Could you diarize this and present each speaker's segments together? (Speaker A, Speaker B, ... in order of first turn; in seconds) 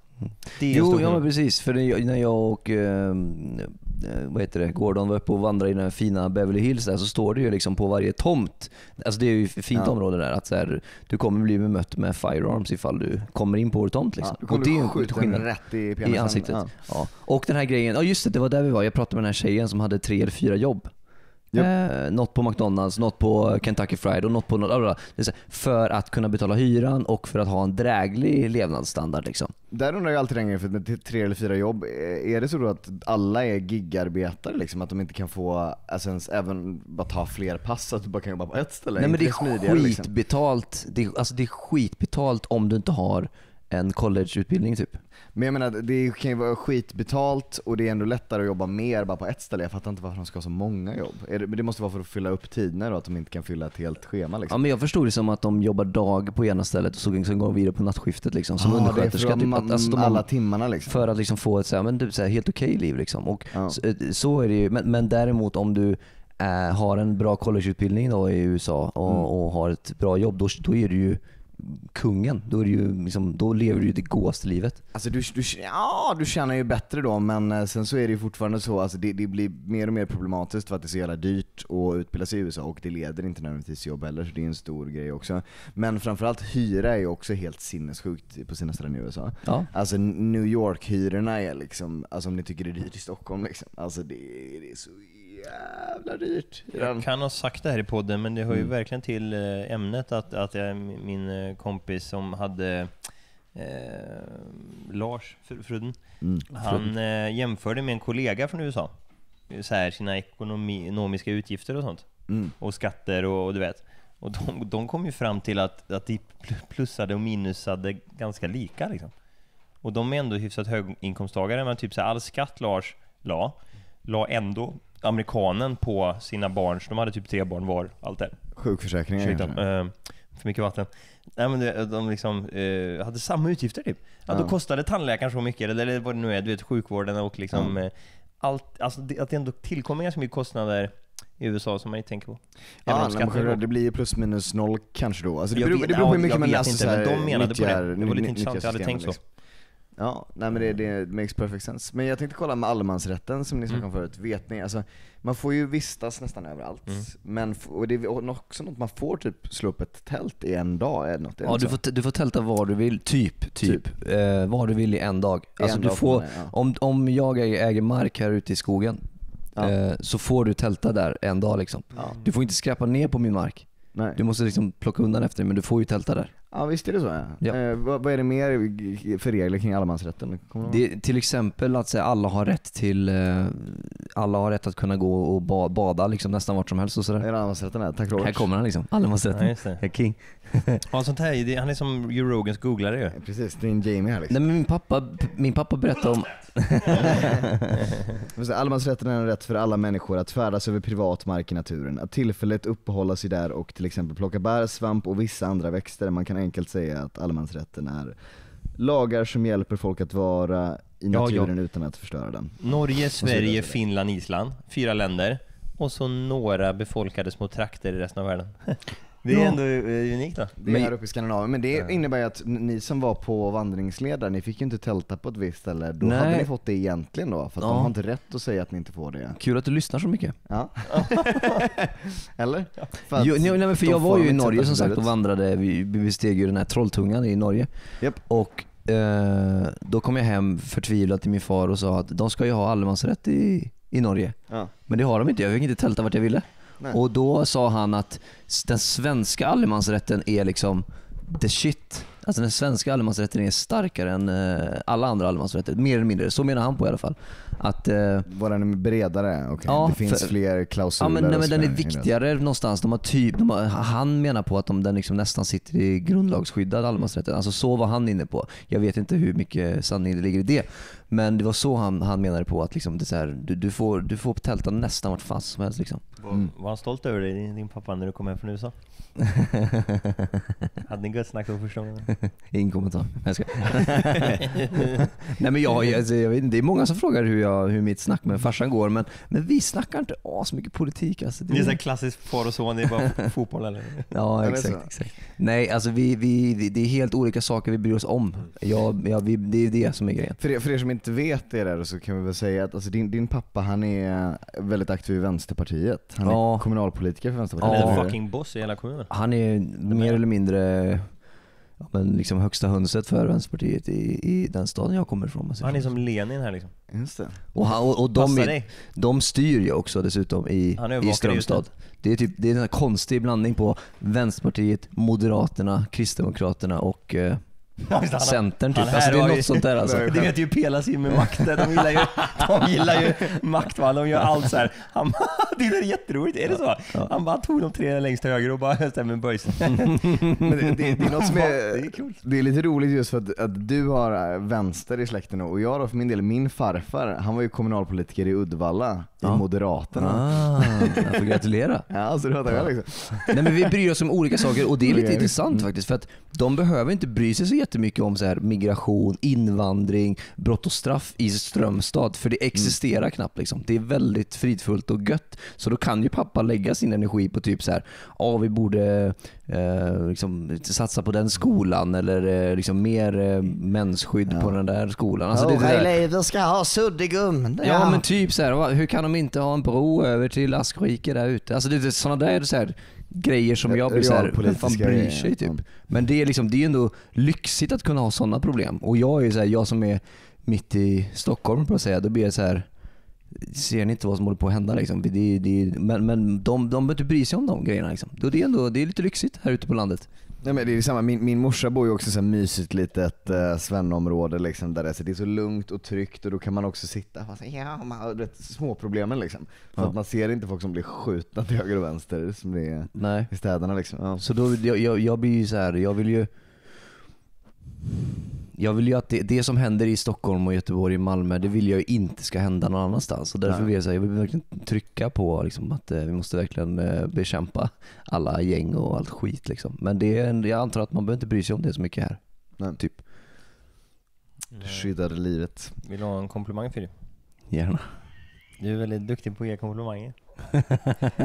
Speaker A: 0.2-15.5, 16.0-20.9, 21.5-29.5, 39.0-45.0, 54.5-60.2, 60.9-74.8, 89.4-89.7, 106.6-106.9, 161.4-169.0, 169.6-176.3, 180.6-187.3, 188.1-190.8, 194.3-197.6, 211.1-211.5, 219.3-219.6, 220.7-220.9, 226.0-226.5, 227.6-227.9, 229.4-230.4, 233.2-237.7, 238.2-258.2, 259.6-260.3, 261.0-276.0, 279.2-280.7, 282.2-291.8, 294.1-300.4, 306.2-306.7, 307.6-308.1, 309.1-311.1, 311.8-315.9, 317.5-330.3, 331.1-331.8, 340.0-340.3, 349.2-351.9, 353.3-375.9, 377.6-392.7, 393.3-400.1, 412.9-413.3, 414.2-416.3, 418.5-433.0, 437.5-437.9
Speaker B: 0.4-1.2, 96.7-108.9, 109.5-119.1, 119.8-128.4, 129.2-143.6, 145.5-149.2, 189.3-189.8, 190.9-193.2, 212.6-220.5, 230.9-231.6, 276.2-278.7, 280.8-282.1, 284.4-285.1, 291.5-294.1, 307.6-309.1, 309.9-310.2, 315.6-316.7, 318.1-318.7, 320.8-321.6, 327.9-340.2, 340.9-342.2, 434.5-434.9, 435.8-436.9, 438.6-440.4
Speaker C: 14.2-16.7, 29.7-40.1, 45.3-54.6, 58.6-61.0, 63.5-63.8, 74.9-97.0, 112.3-112.5, 128.6-129.6, 142.8-149.2, 150.0-161.8, 165.6-166.5, 176.5-180.8, 187.2-188.5, 193.1-194.4, 197.1-197.3, 198.3-208.2, 208.8-213.8, 220.6-229.4, 230.5-235.1, 258.2-262.1, 294.4-294.9, 300.4-308.2, 316.9-317.4, 329.8-330.3, 340.4-351.2, 351.9-353.7, 354.5-355.6, 374.3-374.6, 375.3-378.0, 383.6-385.6, 400.4-414.2, 434.5-435.7